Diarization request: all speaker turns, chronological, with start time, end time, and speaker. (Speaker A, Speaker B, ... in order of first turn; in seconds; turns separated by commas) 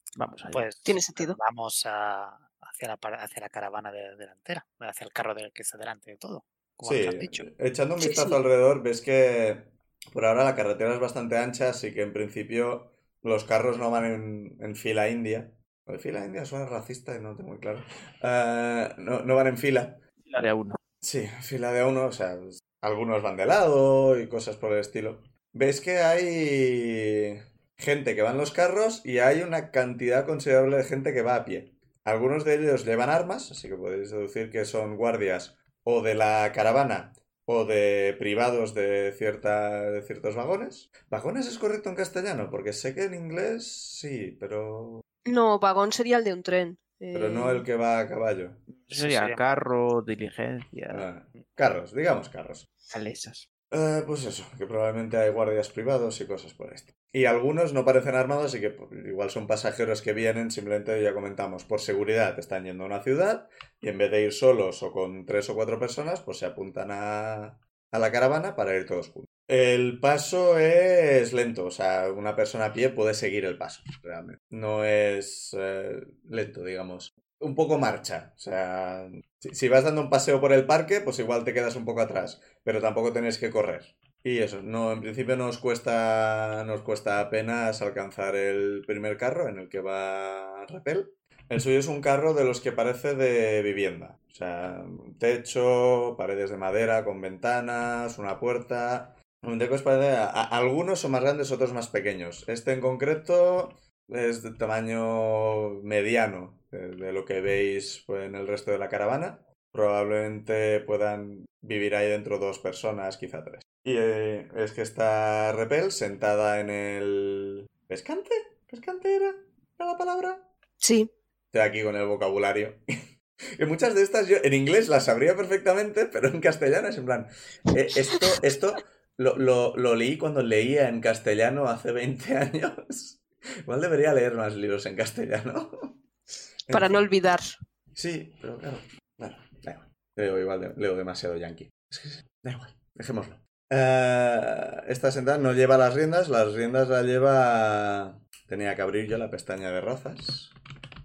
Speaker A: 0.2-0.6, Speaker B: 0.5-7.5, Speaker C: 0.8-1.4, Speaker D: 6.8-20.0, Speaker C: 8.0-8.4, Speaker A: 20.2-20.8, Speaker D: 21.0-45.0, Speaker C: 45.2-47.6, Speaker D: 47.1-48.6, Speaker A: 48.7-51.0, Speaker B: 48.9-49.4, Speaker D: 50.9-52.7, Speaker A: 52.9-53.5, Speaker D: 53.7-120.5, Speaker C: 120.8-121.1, Speaker D: 121.5-122.8, Speaker D: 123.5-136.0, Speaker D: 136.7-137.0, Speaker C: 136.7-137.6, Speaker D: 137.9-150.5